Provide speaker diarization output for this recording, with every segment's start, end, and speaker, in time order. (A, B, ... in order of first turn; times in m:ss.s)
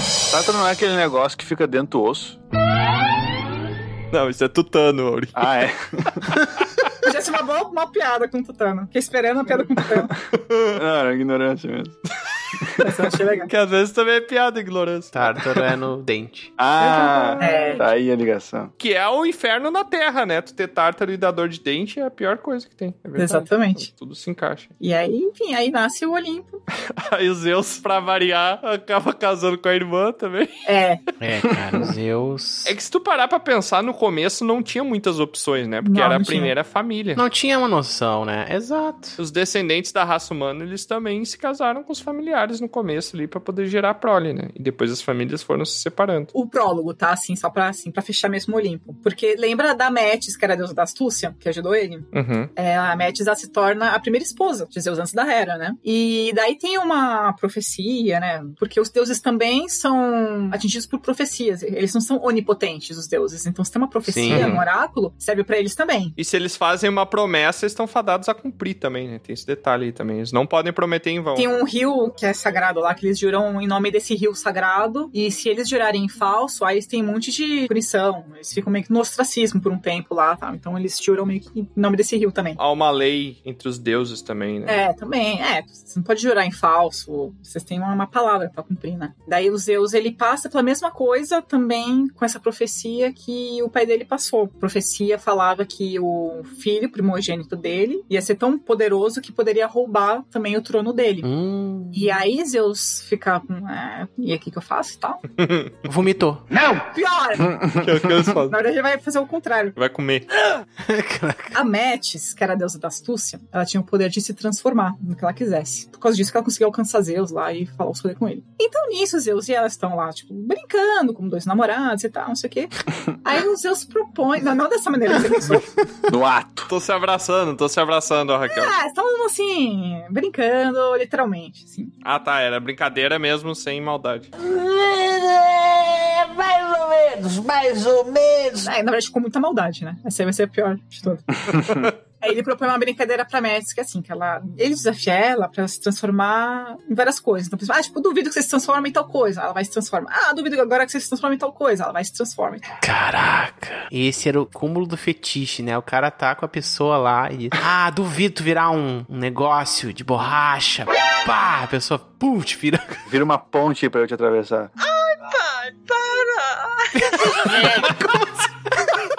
0:00.3-0:02.4 A
0:04.1-0:05.4 B
0:05.4-0:06.3 A
0:07.0-0:10.1 C
0:10.8-0:12.0 A
0:12.8-0:13.5 C
0:13.5-0:15.7 B
0:15.1-0:16.5 D
0:16.6-0:18.7 A
0:16.8-0:17.8 B
0:17.4-0:17.8 C
0:18.8-0:24.7 B
0:23.2-0:23.9 C
0:24.8-0:26.6 C
0:27.0-0:30.6 B
0:30.7-0:31.0 C
0:31.2-0:32.7 D
0:32.6-0:37.2 B
0:35.8-0:36.5 C
0:37.2-0:39.2 D
0:39.2-0:46.3 B
0:46.3-1:06.2 C
0:52.1-0:52.5 B
1:04.1-1:04.6 D
1:04.3-1:04.6 B
1:06.2-1:11.5 B
1:11.4-1:22.6 C
1:22.6-1:24.8 B
1:24.7-1:41.3 C
1:41.2-1:42.0 D
1:41.9-1:45.2 C
1:45.4-1:45.7 B
1:45.9-1:46.4 D
1:46.8-1:47.6 C
1:47.8-1:48.6 B
1:48.5-1:49.8 C
1:49.8-1:50.3 B
1:50.8-1:51.6 D
1:51.5-2:02.7 C
2:03.2-2:05.8 C
2:06.1-2:06.7 A
2:06.7-2:08.8 B
2:08.5-2:11.9 C
2:12.0-2:14.3 B
2:14.4-2:18.7 E
2:18.6-2:21.3 C
2:21.5-2:21.9 A
2:22.2-2:32.7 C
2:32.8-2:43.0 D
2:43.1-2:44.7 A
2:45.9-2:46.3 E
2:47.0-2:48.1 D